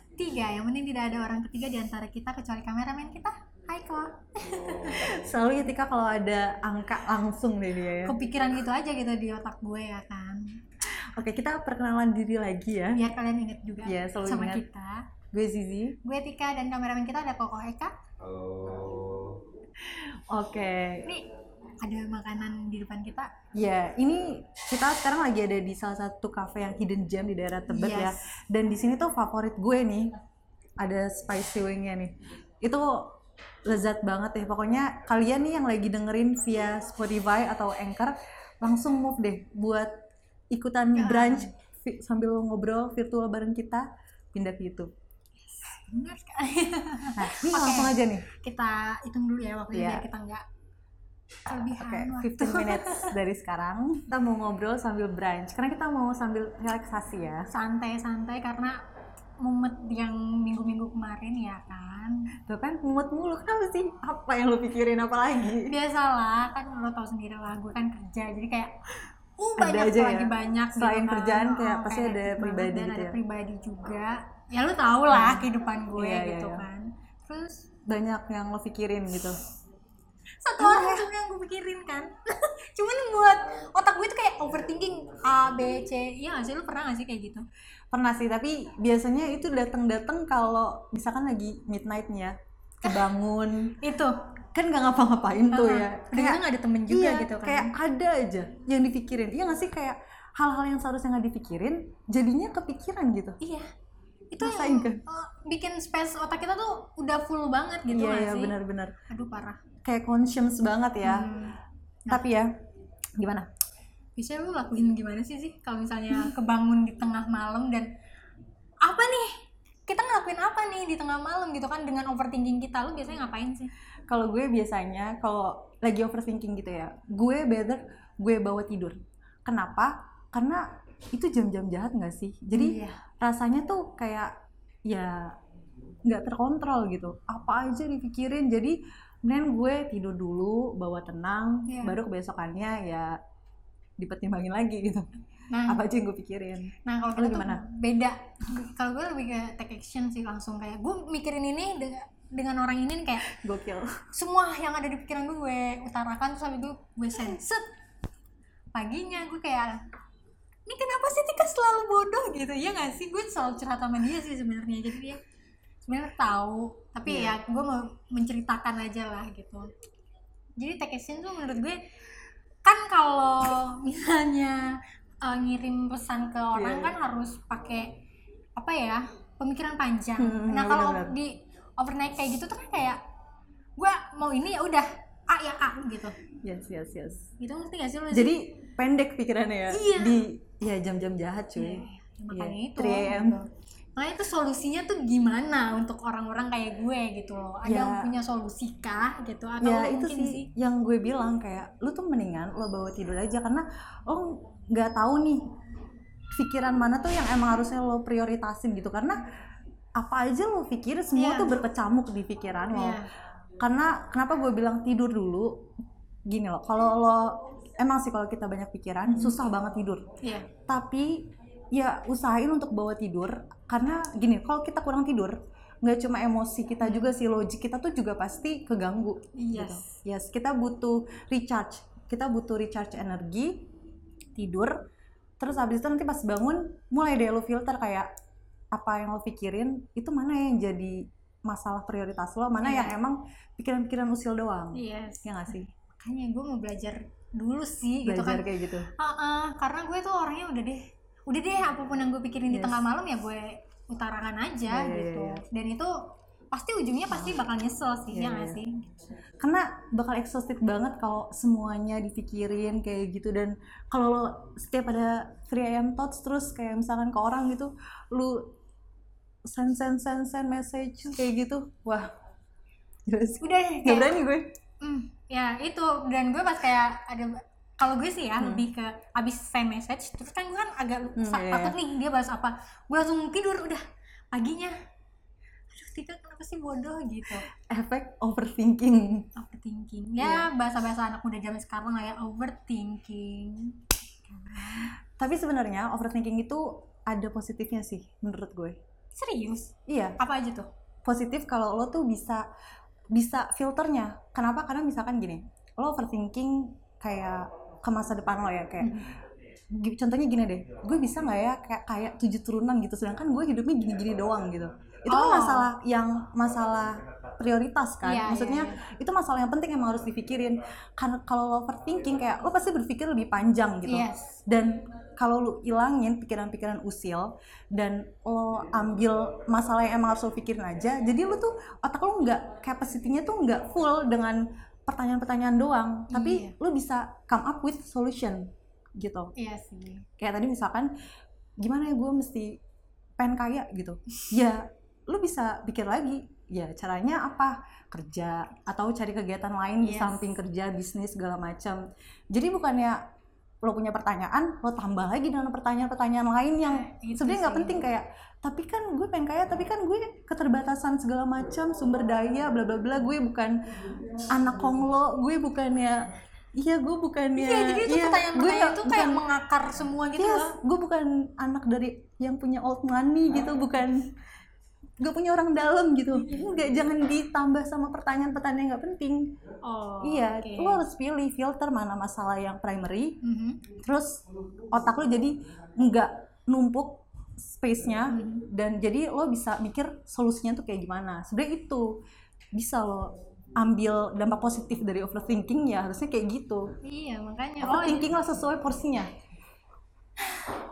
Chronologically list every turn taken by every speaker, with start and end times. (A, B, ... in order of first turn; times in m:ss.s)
0:00.2-0:05.1 A
0:05.0-0:08.2 B
0:08.0-0:10.4 A
0:11.1-0:13.0 B
0:12.9-0:15.0 A
0:13.8-0:14.6 B
0:15.3-0:16.0 B
0:16.0-0:17.9 A
0:18.7-0:19.2 A
0:19.8-0:21.1 B
0:21.8-0:23.3 A
0:23.6-0:30.1 B
0:27.7-0:28.1 A
0:30.8-0:33.1 B
0:33.7-0:39.9 B
0:40.5-0:44.9 B
0:40.9-0:41.5 A
0:45.5-0:50.4 A
0:47.2-0:48.2 B
0:49.7-0:50.0 B
0:51.4-0:53.1 A
0:51.8-0:57.5 B
0:57.5-0:58.8 A
0:59.4-1:02.3 A
1:02.5-1:05.7 B
1:05.6-1:08.7 A
1:09.4-1:17.7 A
1:09.6-1:13.2 B
1:15.1-1:16.6 B
1:17.9-1:19.4 B
1:20.4-1:27.4 A
1:20.6-1:21.1 B
1:27.9-1:33.8 B
1:33.8-1:34.2 A
1:34.5-1:43.4 B
1:35.5-1:37.7 A
1:43.4-1:43.7 A
1:44.3-1:48.5 A
1:44.4-1:45.0 B
1:47.9-1:48.9 B
1:49.1-1:49.6 A
1:49.8-1:51.3 B
1:51.0-1:52.2 A
1:52.1-1:52.5 B
1:53.2-1:53.5 B
1:54.2-1:57.9 A
1:58.8-1:59.3 A
1:59.8-2:03.7 A
2:04.1-2:14.3 B
2:12.5-2:13.0 A
2:14.9-2:15.3 B
2:16.0-2:23.2 B
2:21.7-2:22.0 A
2:24.0-2:25.1 B
2:25.5-2:25.8 A
2:25.7-2:27.6 B
2:26.8-2:33.3 A
2:33.2-2:34.0 B
2:34.1-2:37.7 A
2:38.7-2:39.8 A
2:40.6-2:45.2 A
2:45.8-2:49.7 A
2:47.0-2:47.4 B
2:50.6-2:51.8 A
2:52.6-2:57.9 A
2:56.5-2:57.0 B
2:58.6-3:03.0 A
3:00.2-3:01.1 B
3:03.8-3:06.2 A
3:06.4-3:07.3 B
3:07.4-3:08.4 A
3:08.1-3:13.4 B
3:09.7-3:10.2 A
3:11.6-3:20.5 A
3:17.6-3:18.1 B
3:19.6-3:25.4 B
3:26.3-3:29.2 B
3:30.0-3:33.0 B
3:31.1-3:31.6 A
3:32.7-3:33.0 A
3:33.6-3:35.7 B
3:36.3-3:40.0 B
3:39.1-3:39.4 A
3:40.2-3:40.5 A
3:40.7-3:53.7 B
3:46.8-3:47.1 A
3:49.4-3:49.9 A
3:54.4-3:54.8 B
3:55.4-3:58.1 B
3:58.7-4:05.7 B
4:02.6-4:02.9 A
4:04.7-4:15.9 A
4:08.0-4:08.9 B
4:12.5-4:12.9 B
4:14.7-4:15.4 B
4:16.5-4:19.1 A
4:18.1-4:18.6 B
4:19.4-4:28.6 B
4:29.5-4:32.1 B
4:33.1-4:34.5 B
4:33.4-4:34.2 A
4:34.8-4:44.7 A
4:38.4-4:38.7 B
4:41.2-4:41.8 B
4:45.7-4:47.4 A
4:47.6-4:49.3 B
4:49.4-4:54.9 A
4:50.2-4:50.5 B
4:55.2-4:58.8 B
4:59.1-5:00.7 A
4:59.9-5:00.2 B
5:01.0-5:02.4 B
5:03.1-5:09.1 B
5:08.8-5:09.1 A
5:09.7-5:39.3 B
5:15.1-5:15.7 A
5:18.0-5:18.8 A
5:23.8-5:24.4 A
5:36.1-5:36.5 A
5:39.4-5:40.0 A
5:40.2-5:40.9 B
5:41.6-5:42.6 B
5:43.2-5:53.0 B
5:49.8-5:50.2 A
5:53.6-6:03.6 B
5:56.6-5:57.8 A
6:04.3-6:06.0 B
6:06.6-6:09.2 B
6:07.4-6:10.5 A
6:10.2-6:14.1 B
6:15.0-6:19.4 B
6:19.6-6:20.8 A
6:20.0-6:23.2 B
6:23.2-6:23.6 A
6:23.7-6:32.0 B
6:28.1-6:28.4 A
6:32.5-6:36.7 B
6:36.8-6:38.0 A
6:37.6-6:39.1 B